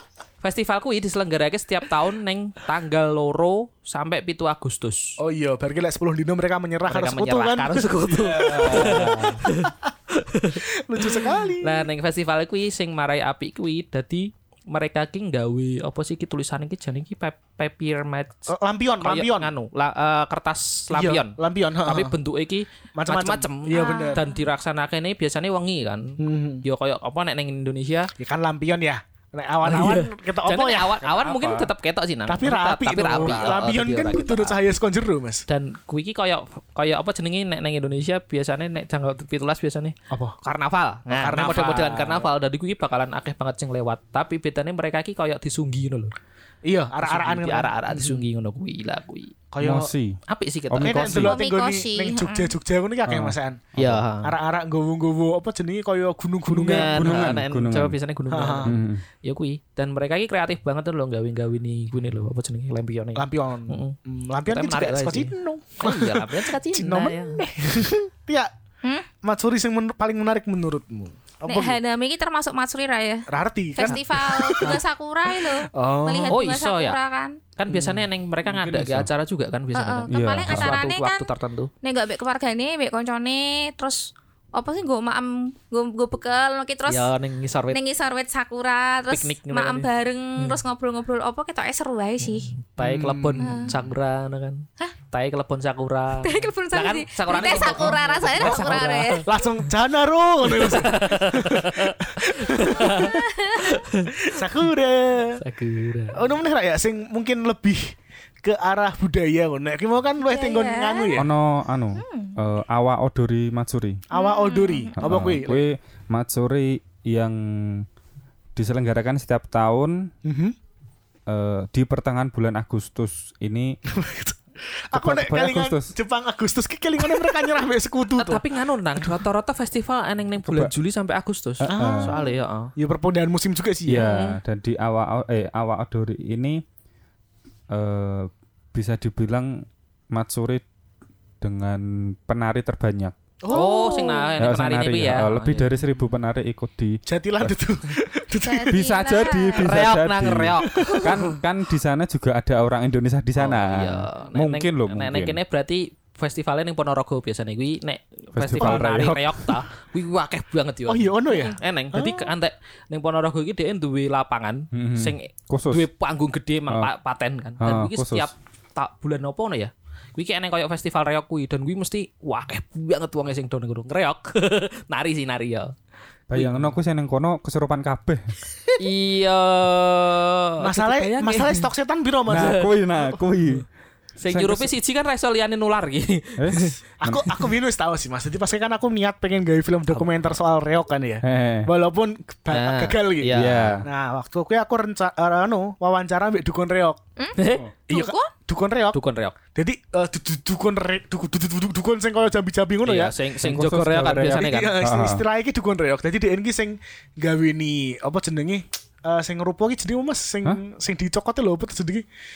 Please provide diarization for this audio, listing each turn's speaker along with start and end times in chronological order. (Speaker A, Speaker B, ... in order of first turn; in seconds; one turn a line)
Speaker A: 0.4-5.2
Speaker B: 5.2-9.9
Speaker A: 6.9-18.5
Speaker C: 8.2-9.4
Speaker B: 10.5-11.9
Speaker B: 18.5-19.5
Speaker A: 19.0-28.1
Speaker B: 20.9-22.1
Speaker B: 22.9-24.2
Speaker D: 23.7-24.4
Speaker B: 26.2-26.6
Speaker B: 28.2-31.0
Speaker A: 29.6-34.6
Speaker C: 31.0-31.7
Speaker B: 32.3-35.5
Speaker C: 33.1-33.5
Speaker A: 35.5-46.1
Speaker B: 40.1-40.4
Speaker B: 41.1-42.3
Speaker B: 46.6-48.2
Speaker A: 47.0-49.3
Speaker B: 49.5-49.9
Speaker C: 49.6-50.2
Speaker A: 50.3-51.3
Speaker C: 50.7-51.4
Speaker B: 50.8-53.7
Speaker D: 51.2-52.5
Speaker C: 53.1-54.0
Speaker A: 53.8-54.3
Speaker B: 54.2-57.3
Speaker A: 56.5-67.4
Speaker C: 56.7-58.0
Speaker B: 58.3-58.7
Speaker C: 58.7-59.0
Speaker B: 63.2-68.5
Speaker B: 69.2-71.8
Speaker D: 71.5-77.4
Speaker B: 73.3-74.8
Speaker B: 75.4-76.4
Speaker A: 76.3-77.0
Speaker A: 77.6-81.7
Speaker C: 78.5-79.1
Speaker D: 79.7-81.3
Speaker C: 80.1-80.8
Speaker D: 81.8-87.1
Speaker A: 86.9-87.8
Speaker D: 87.7-92.5
Speaker A: 89.1-90.6
Speaker A: 92.2-99.3
Speaker B: 92.8-93.7
Speaker D: 93.4-93.7
Speaker D: 96.2-99.2
Speaker B: 97.3-103.2
Speaker A: 100.4-104.4
Speaker D: 102.7-103.8
Speaker B: 104.2-105.4
Speaker A: 105.4-106.2
Speaker B: 106.1-111.3
Speaker D: 110.2-111.2
Speaker C: 111.2-114.0
Speaker D: 112.0-112.4
Speaker D: 114.1-115.0
Speaker B: 114.1-115.6
Speaker C: 115.0-117.9
Speaker C: 118.5-120.1
Speaker B: 120.2-120.6
Speaker C: 121.3-123.8
Speaker B: 123.9-128.4
Speaker C: 124.9-125.9
Speaker A: 128.2-132.7
Speaker C: 130.4-130.7
Speaker C: 131.6-132.2
Speaker B: 131.7-132.2
Speaker B: 132.8-134.1
Speaker C: 133.9-136.6
Speaker A: 134.0-134.4
Speaker C: 137.7-140.6
Speaker C: 141.4-143.2
Speaker B: 143.4-144.1
Speaker D: 143.5-144.3
Speaker A: 143.5-145.8
Speaker C: 144.4-147.6
Speaker B: 147.1-149.3
Speaker D: 148.4-149.7
Speaker C: 148.7-155.4
Speaker A: 149.6-151.3
Speaker B: 150.7-151.1
Speaker A: 153.4-175.7
Speaker C: 158.3-159.6
Speaker B: 158.6-158.8
Speaker B: 160.9-162.3
Speaker C: 164.7-165.9
Speaker C: 167.6-168.3
Speaker C: 176.3-178.3
Speaker A: 176.3-176.7
Speaker A: 178.8-181.7
Speaker B: 180.6-182.7
Speaker C: 182.3-183.7
Speaker A: 182.3-182.7
Speaker A: 184.2-186.7
Speaker C: 184.3-184.7
Speaker C: 186.4-187.4
Speaker B: 187.0-197.0
Speaker C: 191.2-191.7
Speaker A: 192.5-193.8
Speaker C: 193.3-193.9
Speaker D: 197.2-198.3
Speaker A: 197.4-197.7
Speaker B: 197.9-199.0
Speaker A: 198.9-199.4
Speaker B: 199.5-203.2
Speaker A: 202.8-204.8
Speaker C: 203.4-205.2
Speaker B: 204.1-212.1